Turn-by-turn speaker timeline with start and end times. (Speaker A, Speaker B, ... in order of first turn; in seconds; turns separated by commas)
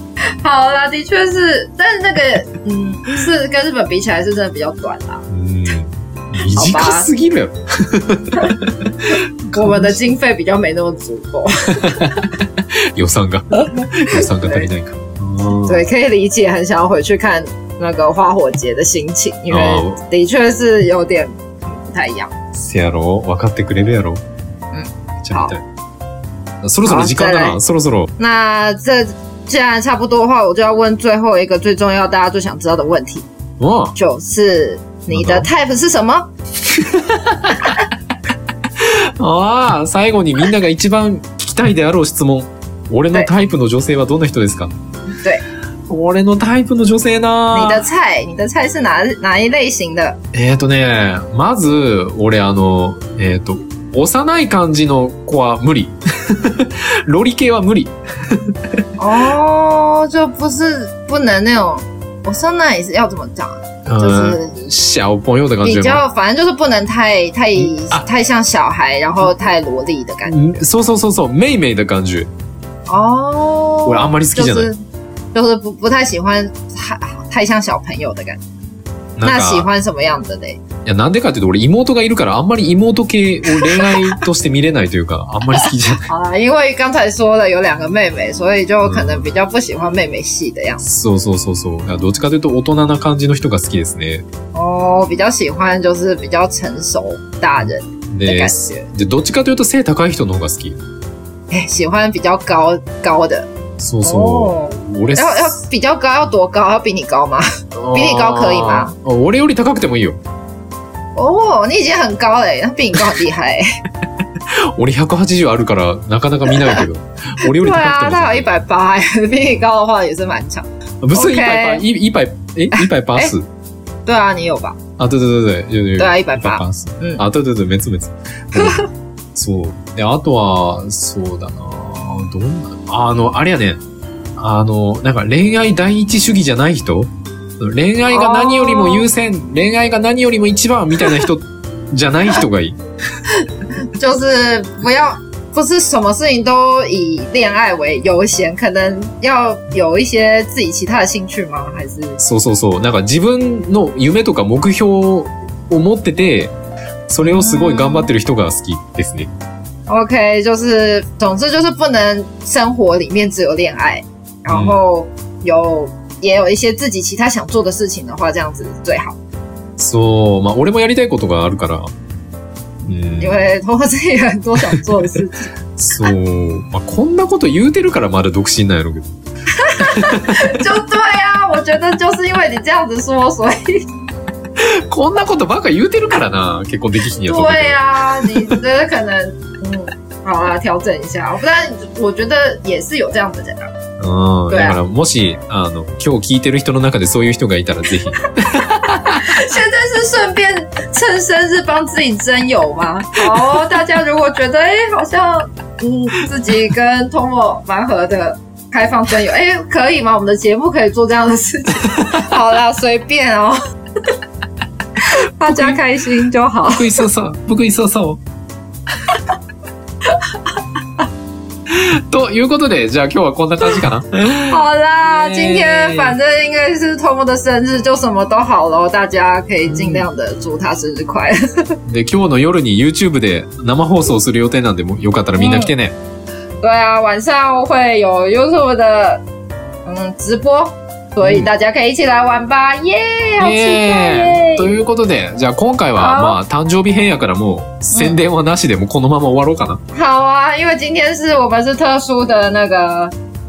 Speaker A: 0.4-5.2, Speaker B: 5.3-10.1, Speaker A: 6.5-7.1, Speaker A: 9.5-12.2, Speaker B: 11.8-15.8, Speaker A: 13.5-14.7, Speaker A: 15.7-22.3, Speaker B: 19.5-20.0, Speaker B: 22.5-24.2, Speaker A: 24.7-25.6, Speaker B: 25.2-25.6, Speaker B: 26.6-28.1, Speaker A: 26.8-27.6, Speaker A: 28.2-33.3, Speaker B: 33.6-33.9, Speaker A: 33.9-36.3, Speaker B: 35.1-35.5, Speaker B: 36.6-37.8, Speaker B: 38.8-44.7, Speaker B: 45.9-47.8, Speaker A: 47.5-50.2, Speaker B: 50.3-58.8, Speaker A: 59.0-64.6, Speaker B: 63.9-66.0, Speaker A: 65.6-70.6, Speaker B: 67.5-68.0, Speaker B: 70.2-72.3, Speaker A: 72.9-74.8, Speaker B: 73.8-74.7, Speaker A: 75.3-78.4, Speaker B: 79.2-79.7, Speaker A: 79.2-80.6, Speaker B: 80.8-86.1, Speaker A: 83.5-83.9, Speaker A: 85.5-90.8, Speaker B: 88.8-89.3, Speaker B: 90.8-94.2, Speaker A: 94.5-98.9, Speaker B: 97.6-100.8, Speaker A: 101.5-103.5, Speaker B: 103.8-105.6, Speaker A: 104.0-108.9, Speaker B: 107.7-110.2, Speaker A: 111.2-113.6, Speaker B: 114.5-118.6, Speaker A: 116.5-116.8, Speaker A: 117.4-121.8, Speaker B: 121.0-123.5, Speaker A: 122.7-123.3, Speaker A: 124.0-124.8, Speaker B: 125.0-133.8, Speaker A: 126.0-127.2, Speaker A: 128.5-128.9, Speaker B: 134.3-142.8, Speaker A: 138.1-139.1, Speaker A: 143.8-152.2, Speaker B: 152.2-156.5, Speaker B: 157.1-159.3, Speaker A: 157.2-158.1, Speaker A: 159.9-169.2, Speaker B: 164.5-164.8, Speaker B: 169.8-171.9, Speaker B: 172.8-173.5, Speaker A: 173.2-175.5, Speaker B: 175.8-179.2, Speaker A: 179.6-183.8, Speaker B: 179.8-180.4, Speaker B: 184.6-188.5, Speaker A: 187.1-193.7, Speaker B: 194.0-199.5, Speaker A: 194.5-194.8, Speaker A: 199.1-213.6, Speaker B: 211.8-212.3, Speaker A: 215.0-217.0, Speaker B: 215.4-215.8, Speaker B: 216.7-218.2, Speaker B: 221.7-226.2, Speaker A: 224.5-231.7, Speaker B: 229.7-230.1, Speaker B: 231.8-235.9, Speaker A: 235.4-235.7, Speaker A: 236.6-239.2, Speaker A: 239.8-244.8, Speaker B: 241.2-241.5, Speaker B: 243.4-249.8, Speaker A: 246.0-246.4, Speaker A: 247.9-248.2, Speaker A: 249.9-253.1